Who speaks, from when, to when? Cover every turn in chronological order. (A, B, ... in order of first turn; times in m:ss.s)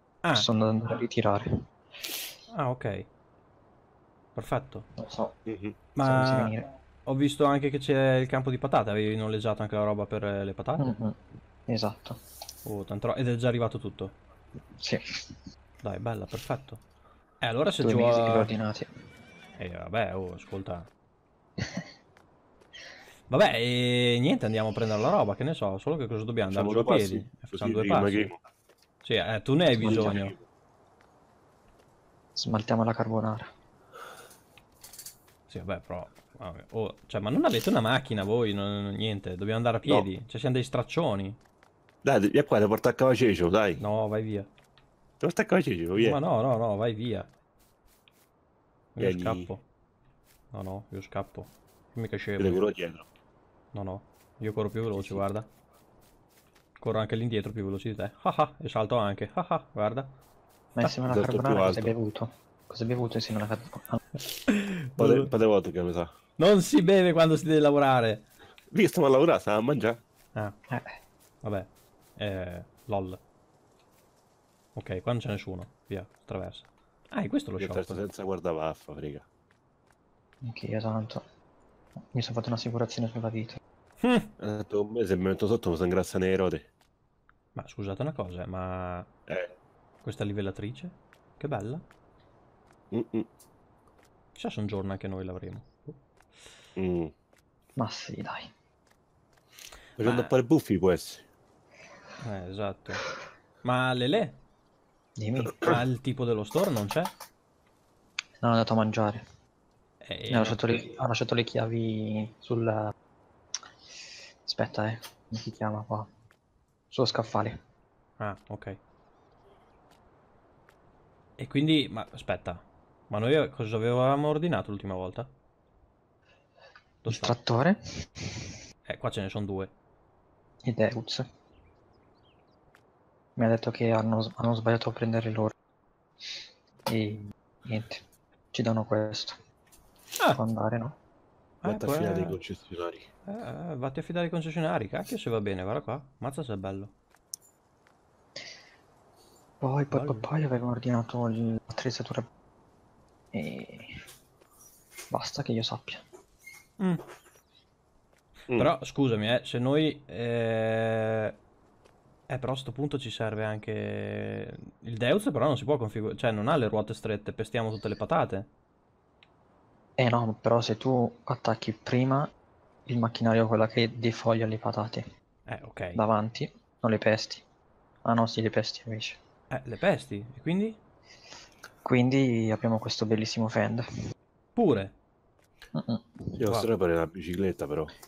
0:00.2-0:00.5 A
0:00.3-0:01.5 B
0:02.5-0:03.1 A
0:04.4-0:04.9 A
0:05.0-0:05.3 B
0:05.5-0:05.8 C
0:05.9-0:10.9 A
0:06.0-0:06.7 B
0:10.8-0:11.2 B
0:11.7-0:12.2 B
0:12.6-0:14.2 A
0:15.8-0:16.8 A
0:17.4-0:18.5 A
0:17.8-0:18.9 B
0:19.6-0:20.9 A
0:23.3-0:28.3 A
0:26.5-0:28.4 C
0:29.0-0:30.4 A
0:29.8-0:30.2 B
0:29.8-0:30.4 C
0:32.4-0:33.5 B
0:35.5-0:41.4 A
0:42.0-0:43.8 C
0:43.8-0:44.5 A
0:45.2-0:46.2 C
0:46.0-0:47.3 A
0:49.0-0:49.6 A
0:49.0-0:49.5 C
0:50.5-0:52.7 A
0:52.4-0:53.0 C
0:53.7-0:55.5 A
0:54.9-0:55.2 C
0:56.8-1:00.1 A
1:00.8-1:04.0 B
1:00.8-1:01.9 C
1:04.2-1:05.3 A
1:05.0-1:06.1 C
1:06.4-1:08.3 A
1:08.7-1:10.0 C
1:11.4-1:13.2 A
1:14.8-1:18.0 A
1:17.6-1:19.2 C
1:20.4-1:21.2 B
1:22.1-1:23.6 B
1:24.0-1:24.3 A
1:24.4-1:26.7 C
1:27.6-1:29.1 A
1:30.0-1:31.8 A
1:32.9-1:33.3 C
1:34.4-1:36.0 A
1:36.8-1:37.1 C
1:37.8-1:38.5 B
1:40.0-1:41.2 C
1:40.0-1:40.3 A
1:42.2-1:43.0 A
1:43.6-1:44.4 A
1:45.2-1:45.8 B
1:45.6-1:47.1 A
1:48.4-1:49.2 B
1:50.0-1:50.6 A
1:50.3-1:52.9 B
1:54.4-1:56.1 B
1:56.9-1:57.6 B
1:58.2-1:58.8 A
2:01.4-2:05.3 A
2:07.0-2:07.4 A
2:07.1-2:08.5 B
2:08.9-2:09.7 A
2:10.6-2:11.2 B
2:13.4-2:15.5 B
2:16.9-2:19.4 B
2:20.3-2:21.0 B
2:21.6-2:22.4 A
2:21.6-2:23.1 C
2:23.2-2:26.9 A
2:29.6-2:32.2 B
2:29.9-2:30.3 A
2:33.3-2:33.9 B
2:35.1-2:36.0 B
2:38.5-2:41.4 A
2:42.3-2:48.5 A
2:50.0-2:52.3 B
2:52.9-2:55.0 B
2:55.5-2:56.0 A
2:56.0-2:57.4 B
2:58.0-2:59.2 B
2:59.5-3:00.8 A
3:01.8-3:03.8 B
3:04.6-3:05.0 A
3:05.8-3:06.4 B
3:06.4-3:07.9 C